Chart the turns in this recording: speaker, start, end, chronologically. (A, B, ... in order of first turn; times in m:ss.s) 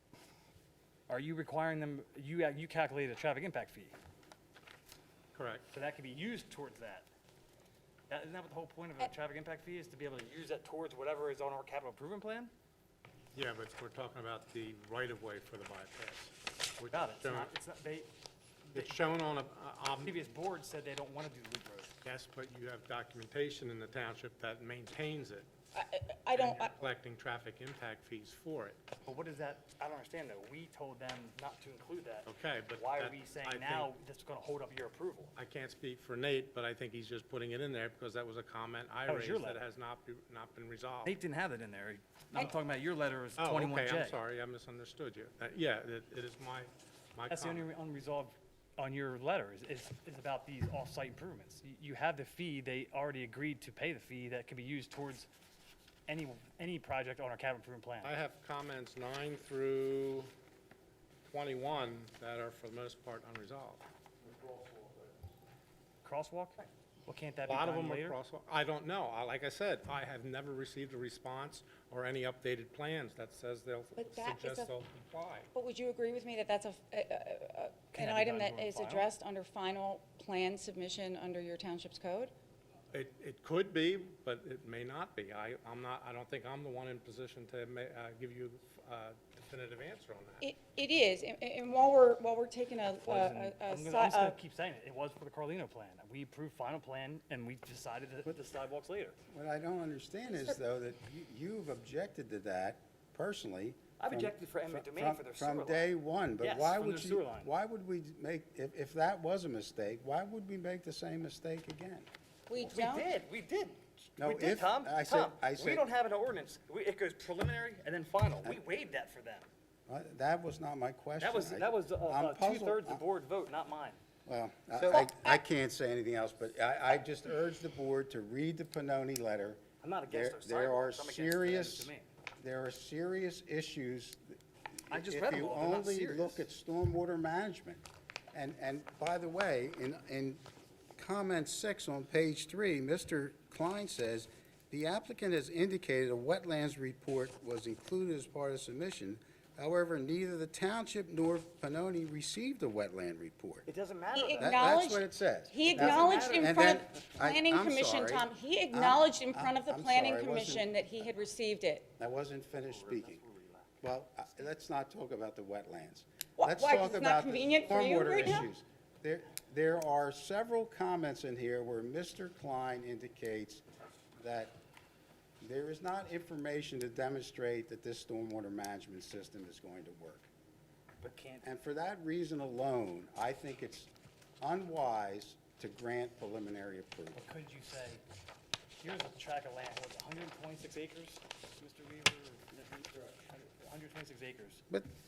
0:01.1-0:04.0 A
0:05.3-0:05.7 B
0:05.7-0:07.1 A
0:08.1-0:12.5 A
0:13.3-0:17.5 B
0:16.9-0:18.1 A
0:18.7-0:19.0 A
0:18.7-0:20.2 B
0:20.0-0:21.9 A
0:22.0-0:25.5 B
0:25.7-0:26.8 C
0:26.3-0:28.8 B
0:29.0-0:35.4 A
0:32.3-0:33.9 B
0:35.4-0:41.2 B
0:39.1-0:39.6 A
0:41.0-0:44.2 A
0:43.4-0:47.7 B
0:47.3-0:55.3 A
0:56.1-0:58.1 A
0:58.0-1:00.3 B
1:01.3-1:03.8 B
1:06.0-1:08.2 A
1:07.4-1:15.5 B
1:14.0-1:14.7 C
1:15.5-1:22.3 C
1:17.9-1:19.1 A
1:22.9-1:30.4 B
1:30.4-1:34.4 C
1:33.1-1:39.2 A
1:39.3-1:52.1 D
1:40.3-1:40.6 C
1:44.0-1:47.5 A
1:52.5-1:53.1 C
1:52.6-1:59.5 A
1:54.2-1:55.8 D
1:59.9-2:03.0 D
2:01.2-2:04.0 A
2:04.3-2:20.4 D
2:04.9-2:05.2 C
2:09.8-2:12.1 A
2:14.9-2:16.4 A
2:21.0-2:33.7 D
2:33.7-2:34.6 A
2:34.1-2:41.9 C
2:34.4-2:40.7 D
2:35.7-2:36.8 A
2:42.0-2:43.2 D
2:42.7-2:43.8 A
2:43.8-2:53.6 D
2:46.4-2:48.5 C
2:54.2-2:54.6 D
2:55.4-3:00.3 D
3:01.0-3:01.4 A
3:01.4-3:07.2 D
3:07.1-3:08.0 A
3:08.8-3:14.6 A